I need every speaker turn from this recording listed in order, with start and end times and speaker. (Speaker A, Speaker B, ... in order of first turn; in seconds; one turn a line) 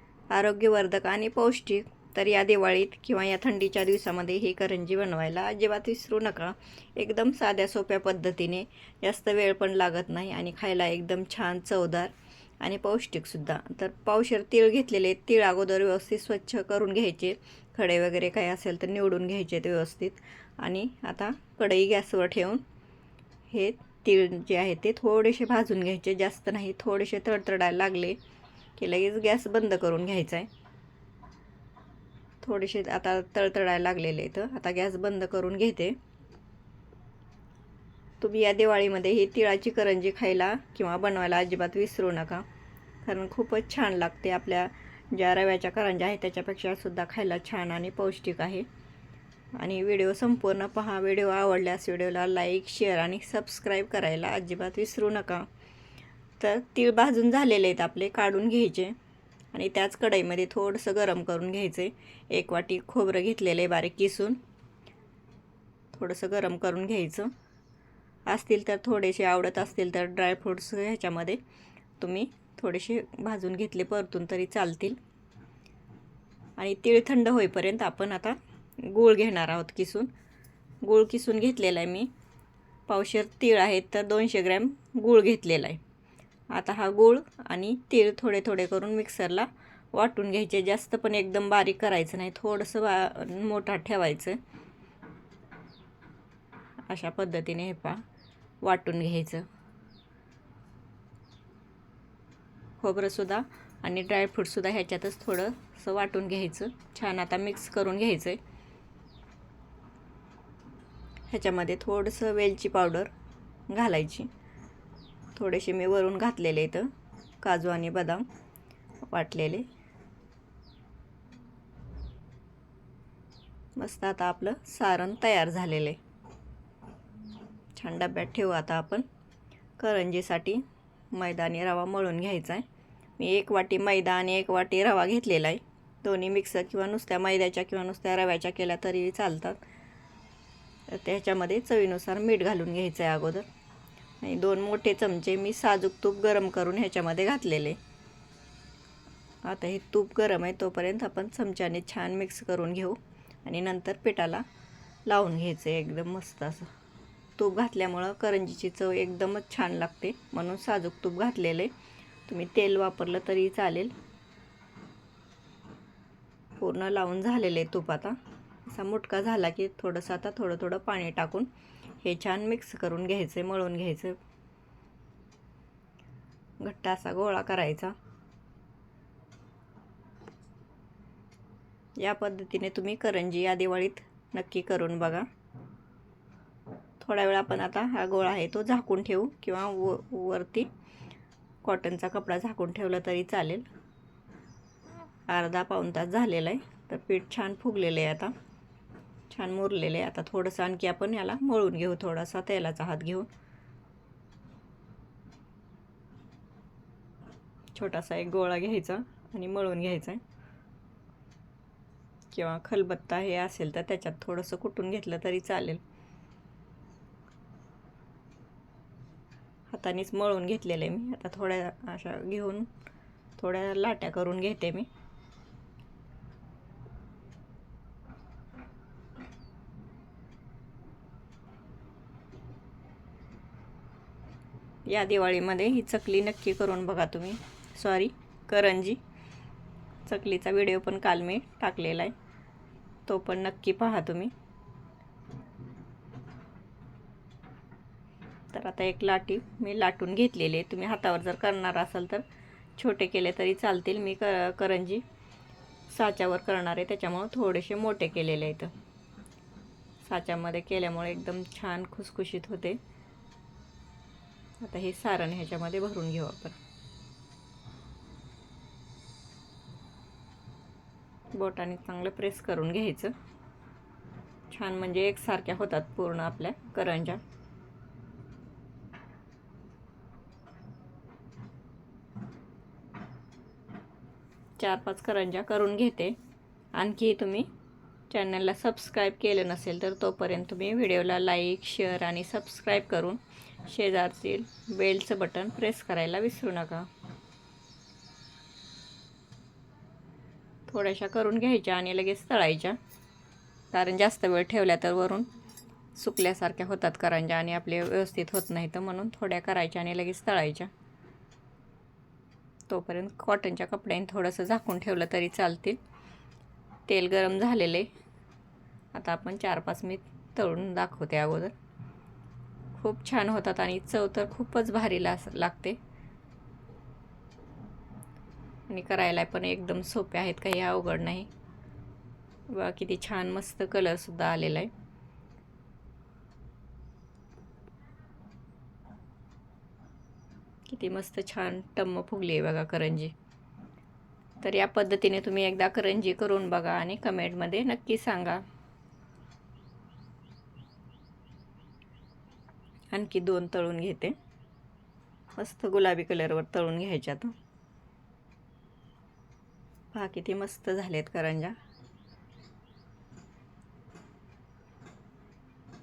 Speaker A: 0.3-22.6
Speaker A: 23.5-28.2
Speaker A: 28.8-30.5
Speaker A: 32.4-36.0
Speaker A: 38.2-42.4
Speaker A: 43.0-48.7
Speaker A: 49.5-55.5
Speaker A: 56.4-59.0
Speaker A: 59.5-64.4
Speaker A: 65.9-67.3
Speaker A: 68.3-71.4
Speaker A: 72.0-75.0
Speaker A: 76.6-80.1
Speaker A: 80.8-82.1
Speaker A: 82.9-85.8
Speaker A: 86.5-94.4
Speaker A: 96.9-98.0
Speaker A: 98.6-99.5
Speaker A: 102.8-108.4
Speaker A: 111.3-113.1
Speaker A: 113.7-114.3
Speaker A: 115.3-116.9
Speaker A: 117.4-118.3
Speaker A: 119.1-119.7
Speaker A: 123.8-126.0
Speaker A: 127.8-129.1
Speaker A: 129.8-132.6
Speaker A: 133.2-139.6
Speaker A: 140.9-143.5
Speaker A: 144.2-147.8
Speaker A: 149.4-154.4
Speaker A: 155.1-156.7
Speaker A: 157.4-161.7
Speaker A: 162.3-163.9
Speaker A: 166.6-168.2
Speaker A: 168.7-171.5
Speaker A: 172.0-174.2
Speaker A: 176.6-177.9
Speaker A: 182.0-185.3
Speaker A: 187.0-190.7
Speaker A: 191.6-193.7
Speaker A: 195.3-198.3
Speaker A: 199.3-203.3
Speaker A: 207.7-210.2
Speaker A: 212.3-215.8
Speaker A: 219.7-222.7
Speaker A: 223.4-224.9
Speaker A: 234.8-239.0
Speaker A: 240.1-242.1
Speaker A: 243.1-244.3
Speaker A: 248.5-252.2
Speaker A: 252.8-255.0
Speaker A: 255.9-258.7
Speaker A: 260.0-262.8
Speaker A: 264.6-266.6
Speaker A: 271.3-273.1
Speaker A: 274.5-277.2
Speaker A: 284.6-286.1
Speaker A: 286.7-287.5
Speaker A: 288.1-296.9
Speaker A: 300.7-302.8
Speaker A: 303.7-305.3
Speaker A: 305.9-310.7
Speaker A: 312.7-315.8
Speaker A: 316.9-317.9
Speaker A: 318.9-321.5
Speaker A: 322.8-325.8
Speaker A: 328.7-331.3
Speaker A: 332.5-334.7
Speaker A: 340.7-343.1
Speaker A: 344.4-348.4
Speaker A: 352.9-354.1
Speaker A: 355.4-357.3
Speaker A: 359.9-361.6